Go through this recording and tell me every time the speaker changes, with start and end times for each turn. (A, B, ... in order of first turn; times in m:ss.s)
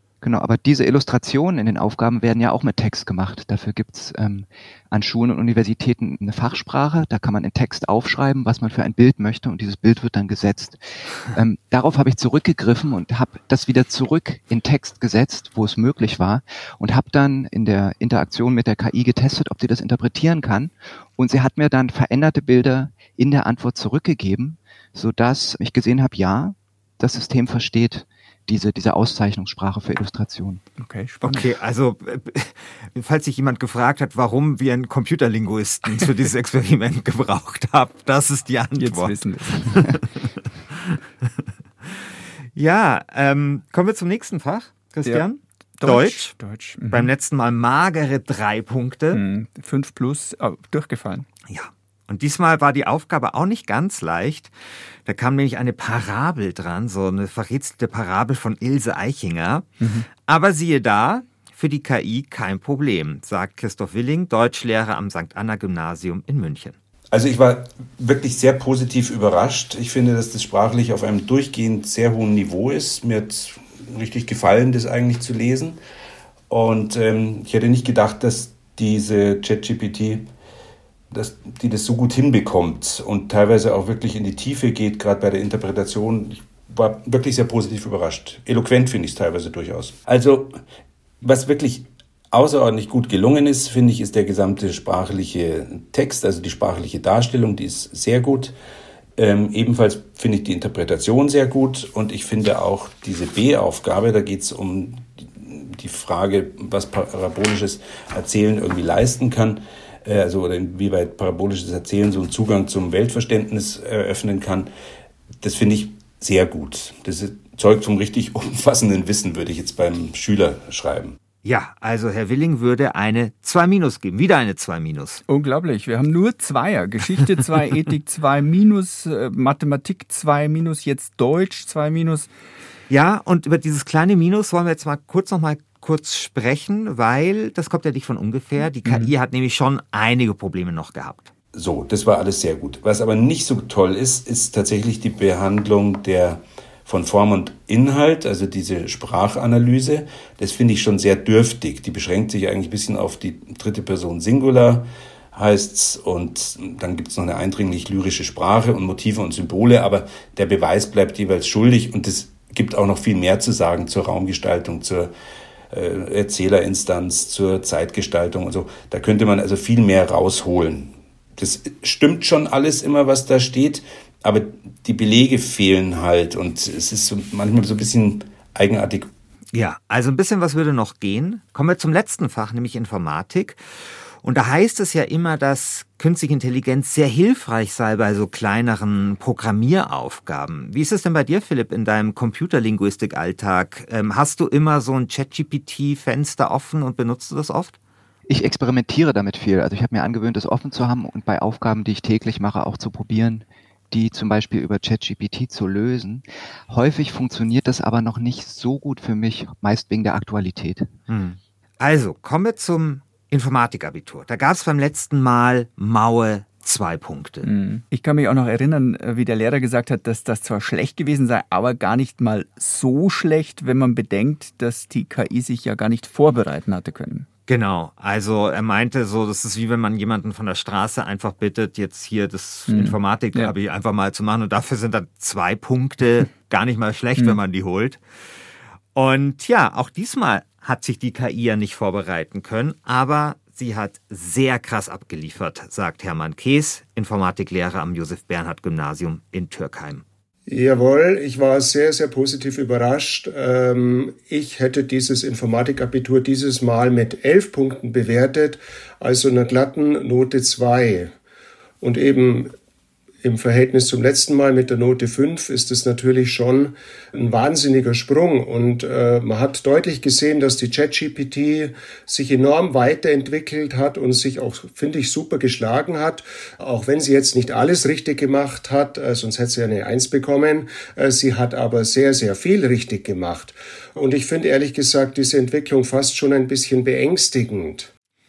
0:00.2-0:30.6 A
0:30.8-0:31.5 B
0:31.2-0:40.2 C
0:38.8-0:40.0 B
0:42.5-0:46.3 C
0:45.8-0:47.1 B
0:46.9-0:49.2 C
0:49.1-0:51.3 B
0:51.5-0:54.5 C
0:55.1-0:59.7 C
0:59.8-1:00.1 B
1:00.2-1:06.8 C
1:07.1-1:15.8 D
1:16.5-1:20.3 D
1:21.1-1:30.6 D
1:31.2-1:38.6 D
1:39.2-1:54.7 D
1:55.4-2:01.2 D
2:01.4-2:05.2 C
2:05.3-2:12.3 B
2:12.9-2:21.3 C
2:18.8-2:19.1 B
2:21.5-2:45.1 D
2:45.7-2:59.1 D
2:59.5-3:03.6 C
3:04.2-3:17.8 C
3:18.3-3:30.9 A
3:31.1-3:37.5 C
3:37.4-3:47.3 B
3:47.5-3:58.0 C
3:52.7-3:53.5 B
3:59.0-4:10.0 C
4:10.5-4:21.1 E
4:21.8-4:22.5 E
4:23.2-4:47.9 E